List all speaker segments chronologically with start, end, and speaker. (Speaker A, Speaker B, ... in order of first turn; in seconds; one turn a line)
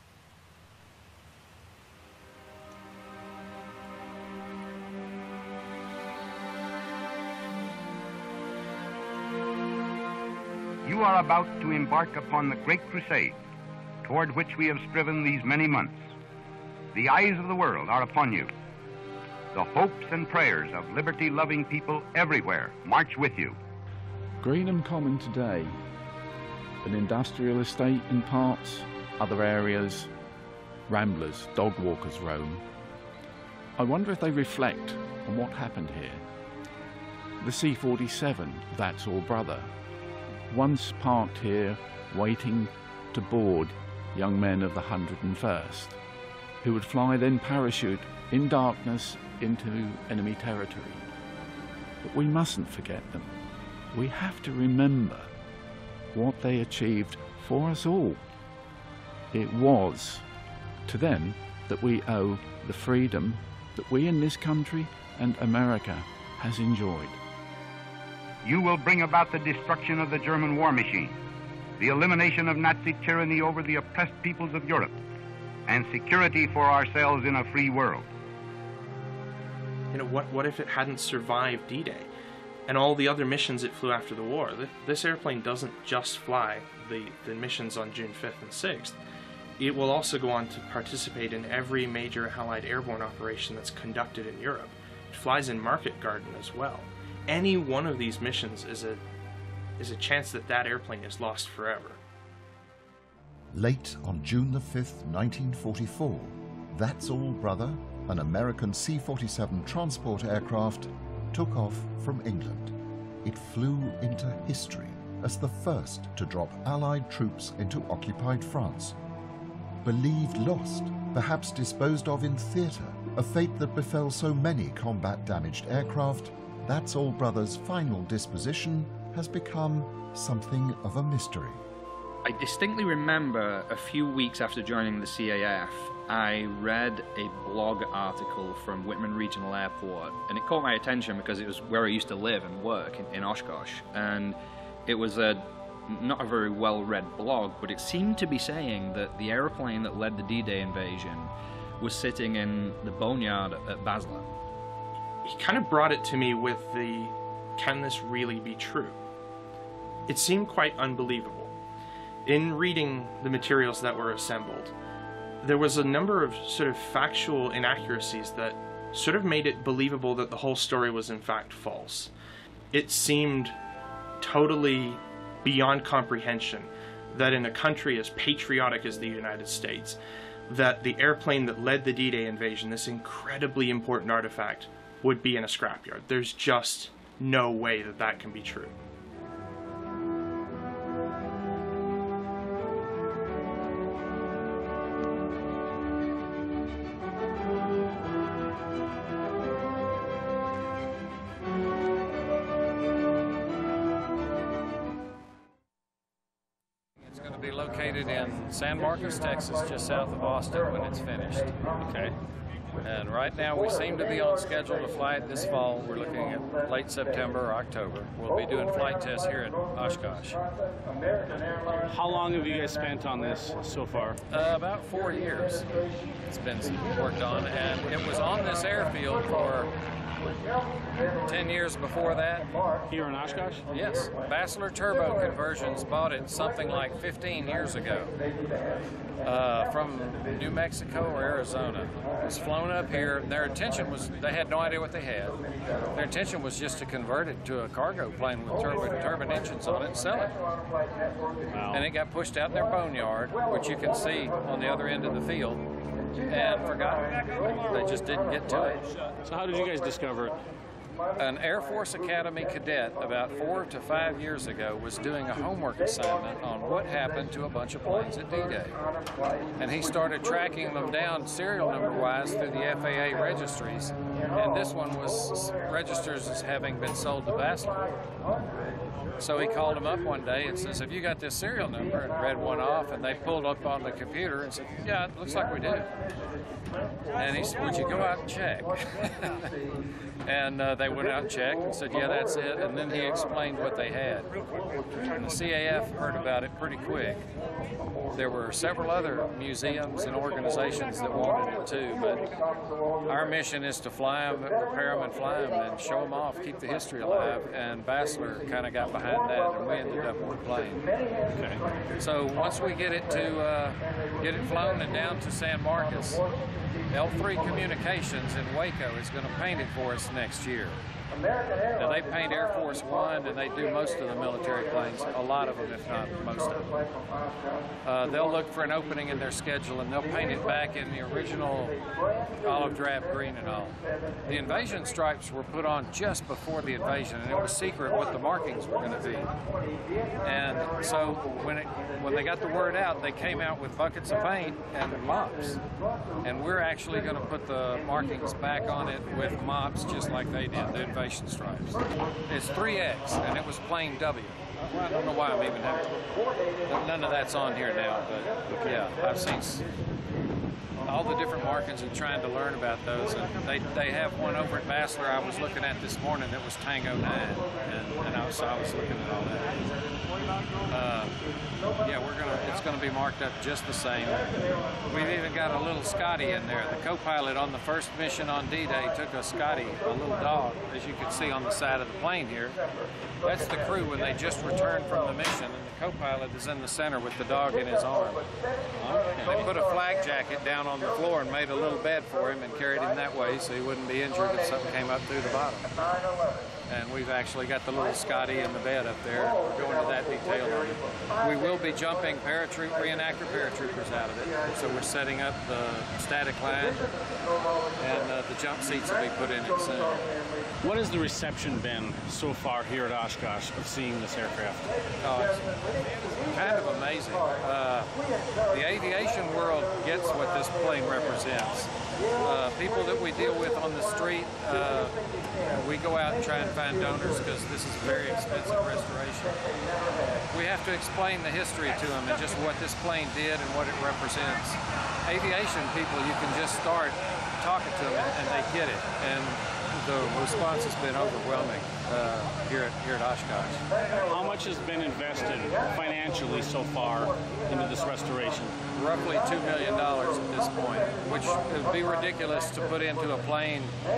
Speaker A: 10.8-13.3
Speaker A: 14.0-16.0
Speaker A: 16.9-18.5
Speaker A: 19.5-23.6
Speaker B: 24.4-25.8
Speaker B: 26.8-30.1
Speaker B: 30.9-32.6
Speaker B: 33.8-36.2
Speaker B: 37.4-39.7
Speaker B: 40.5-46.0
Speaker B: 46.6-51.0
Speaker B: 52.0-53.3
Speaker B: 53.9-55.3
Speaker B: 56.1-58.2
Speaker B: 59.3-60.2
Speaker B: 60.9-67.2
Speaker A: 68.4-71.1
Speaker A: 71.8-75.0
Speaker A: 75.7-78.1
Speaker C: 79.9-82.1
Speaker C: 82.7-89.0
Speaker C: 89.6-99.0
Speaker C: 99.8-102.0
Speaker D: 103.5-119.0
Speaker D: 119.8-131.6
Speaker E: 132.2-154.3
Speaker C: 155.2-159.0
Speaker C: 160.1-161.5
Speaker C: 162.2-164.7
Speaker C: 165.4-172.1
Speaker C: 172.7-173.5
Speaker C: 174.2-188.8
Speaker F: 207.0-212.1
Speaker F: 212.8-220.4
Speaker G: 221.9-224.2
Speaker F: 224.3-225.7
Speaker F: 226.3-229.7
Speaker F: 231.2-232.5
Speaker G: 232.9-233.7
Speaker F: 233.7-238.1
Speaker F: 239.2-245.4
Speaker F: 245.9-250.3
Speaker G: 251.5-251.8
Speaker F: 251.7-255.6
Speaker F: 256.3-258.8
Speaker G: 259.2-260.4
Speaker F: 261.2-268.8
Speaker F: 269.6-277.8
Speaker F: 279.2-285.9
Speaker F: 287.1-289.4
Speaker F: 290.2-294.3
Speaker F: 295.1-297.2
Speaker F: 298.1-302.3
Speaker F: 303.1-310.9
Speaker G: 311.3-311.6
Speaker F: 311.9-316.2
Speaker F: 316.9-320.8
Speaker F: 321.8-326.6
Speaker F: 327.8-331.8
Speaker F: 332.4-333.8
Speaker F: 334.3-339.3
Speaker F: 340.2-345.6
Speaker F: 346.2-355.9
Speaker F: 356.7-359.6
Speaker F: 360.8-369.7
Speaker F: 370.7-371.2
Speaker F: 371.8-374.3
Speaker F: 374.9-382.6
Speaker F: 383.2-388.2
Speaker F: 388.8-395.7
Speaker F: 396.7-406.8
Speaker F: 407.8-410.0
Speaker G: 410.6-414.7
Speaker F: 415.0-417.9
Speaker F: 418.5-425.0
Speaker F: 425.5-429.4
Speaker F: 430.3-443.6
Speaker G: 444.1-448.6
Speaker F: 448.7-453.7